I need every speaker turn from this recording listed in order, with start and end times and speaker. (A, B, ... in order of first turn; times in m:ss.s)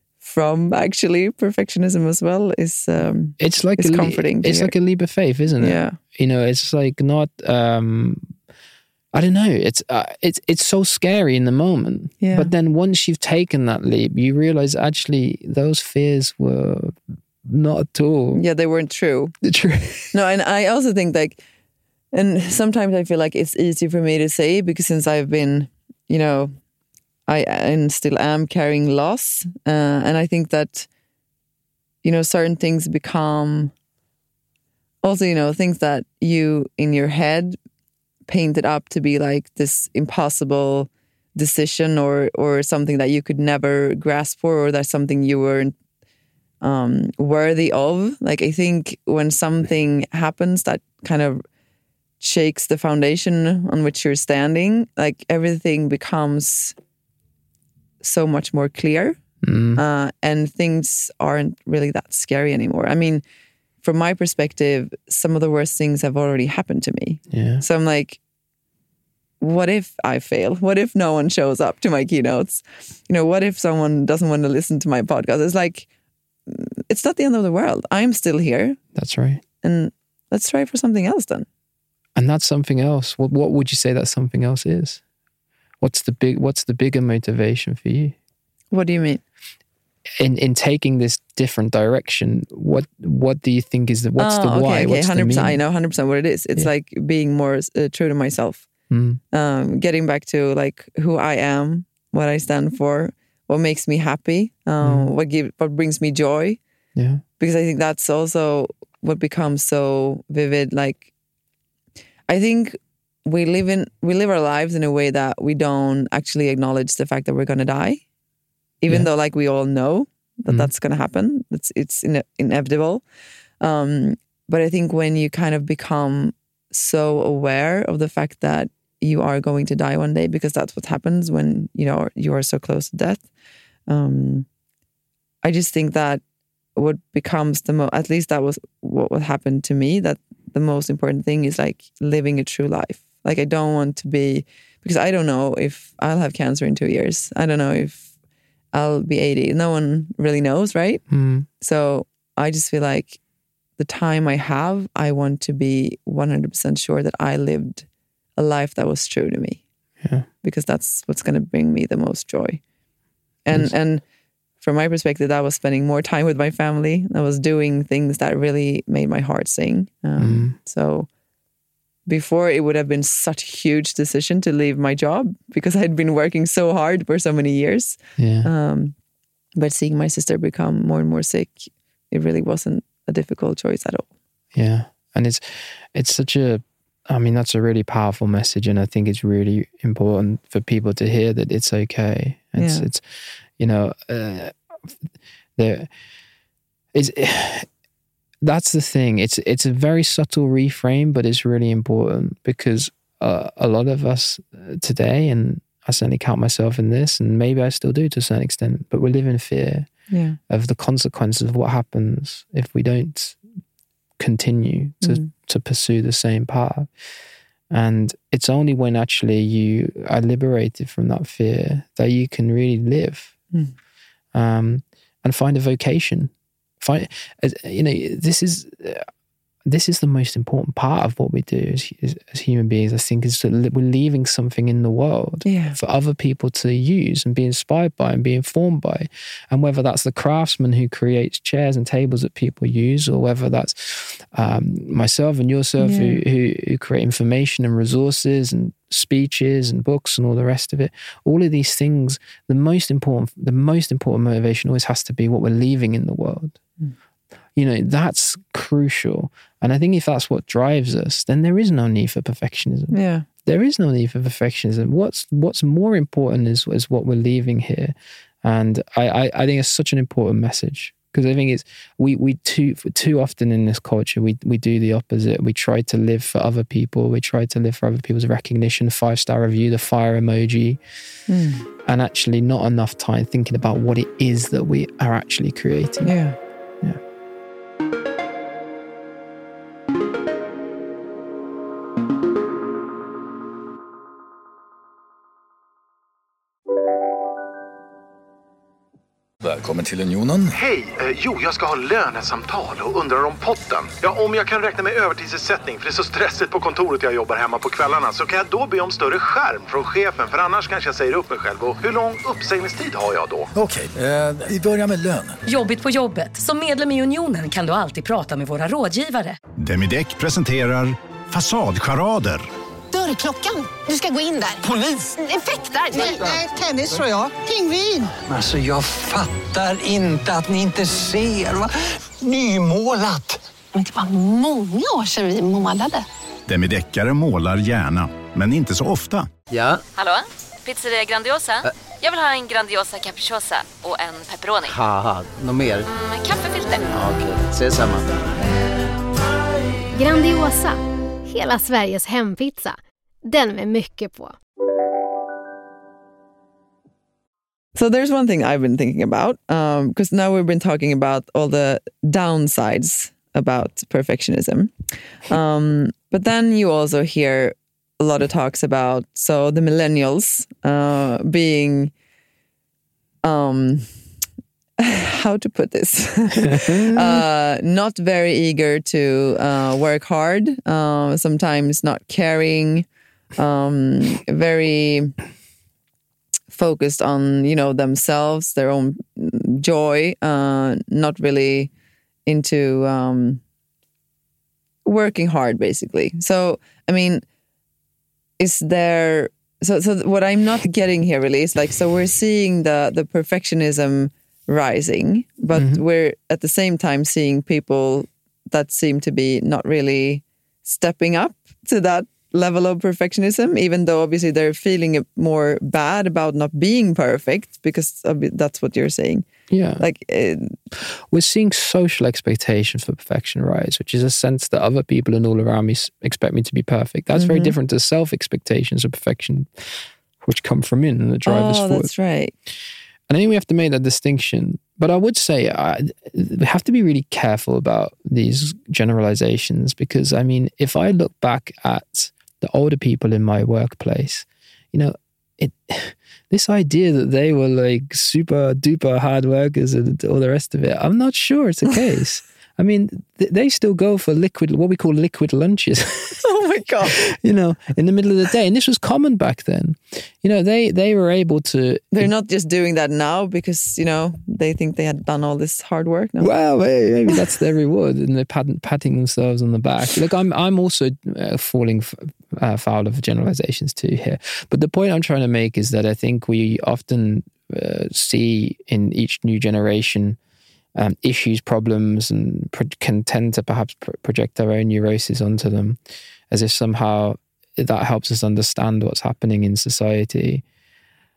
0:00.2-0:04.7 A
0:03.4-0:08.3 B
0:05.6-0:06.0 A
0:09.1-0:18.4 B
0:12.2-0:12.5 A
0:18.3-0:19.3 A
0:19.4-0:20.1 B
0:20.1-0:21.4 A
0:22.1-0:26.5 A
0:27.3-0:30.9 A
0:32.0-0:33.7 A
0:35.0-0:37.6 A
0:38.3-0:45.7 A
0:46.6-0:51.4 A
0:52.2-0:56.7 A
0:58.0-0:59.2 A
0:59.4-0:59.8 B
0:59.8-1:03.2 A
1:03.8-1:08.2 A
1:07.3-1:07.6 B
1:09.4-1:15.9 A
1:16.5-1:18.8 A
1:18.9-1:19.4 B
1:19.6-1:21.4 A
1:22.1-1:25.0 B
1:25.8-1:28.2 B
1:28.7-1:29.2 A
1:30.2-1:35.6 B
1:34.2-1:38.7 A
1:38.9-1:39.2 B
1:39.3-1:46.6 A
1:44.8-1:45.1 B
1:47.0-1:47.2 B
1:47.4-1:51.1 A
1:52.3-1:58.0 A
1:58.8-2:03.0 A
2:03.6-2:13.2 A
2:13.9-2:14.5 A
2:15.4-2:16.2 A
2:16.8-2:28.1 A
2:28.7-2:31.0 A
2:31.1-2:31.5 B
2:31.6-2:33.2 A
2:33.8-2:37.8 A
2:38.4-2:39.6 A
2:40.0-2:40.3 B
2:40.4-2:42.6 A
2:43.4-2:44.0 A
2:44.6-2:51.1 A
2:50.2-2:50.6 B
2:52.1-2:59.0 A
2:58.2-2:58.5 B
2:59.6-3:04.1 A
3:04.5-3:14.6 B
3:12.6-3:12.9 A
3:15.6-3:15.9 B
3:16.9-3:17.7 B
3:18.4-3:29.9 B
3:30.1-3:30.4 A
3:30.5-3:33.4 B
3:34.2-3:36.9 B
3:35.0-3:35.3 A
3:37.7-3:43.3 B
3:44.3-3:49.1 B
3:49.6-4:16.6 B
3:55.4-3:55.8 A
4:05.8-4:06.2 A
4:17.6-4:40.8 B
4:22.9-4:23.2 A
4:41.3-4:41.6 A
4:41.8-4:46.1 B
4:46.0-4:46.3 A
4:59.4-5:00.5 C
5:00.5-5:13.5 D
5:13.5-5:15.4 C
5:15.4-5:19.4 E
5:19.6-5:22.4 F
5:22.9-5:28.1 G
5:28.2-5:33.4 H
5:33.7-5:36.0 G
5:36.5-5:39.3 F
5:39.5-5:39.8 H
5:39.9-5:44.8 I
5:44.7-5:45.9 H
5:45.9-5:47.0 I
5:46.9-5:48.1 H
5:49.9-5:54.4 J
5:57.7-6:04.7 A
6:05.3-6:11.9 A
6:13.2-6:13.9 A
6:14.8-6:22.8 A
6:16.4-6:17.2 B
6:23.4-6:25.1 A
6:26.5-6:31.7 A
6:32.2-6:33.4 A
6:34.8-6:37.2 A
6:38.4-6:59.3 A
6:45.5-6:45.8 B
6:59.5-6:59.8 B
6:59.8-7:00.5 A
7:00.8-7:11.9 B
7:07.1-7:07.5 A
7:11.2-7:12.3 A
7:13.1-7:36.2 B
7:36.2-7:37.0 A
7:36.8-7:42.1 B
7:41.9-7:46.3 A
7:46.2-8:00.2 B
8:00.7-8:05.8 B
8:06.3-8:10.4 B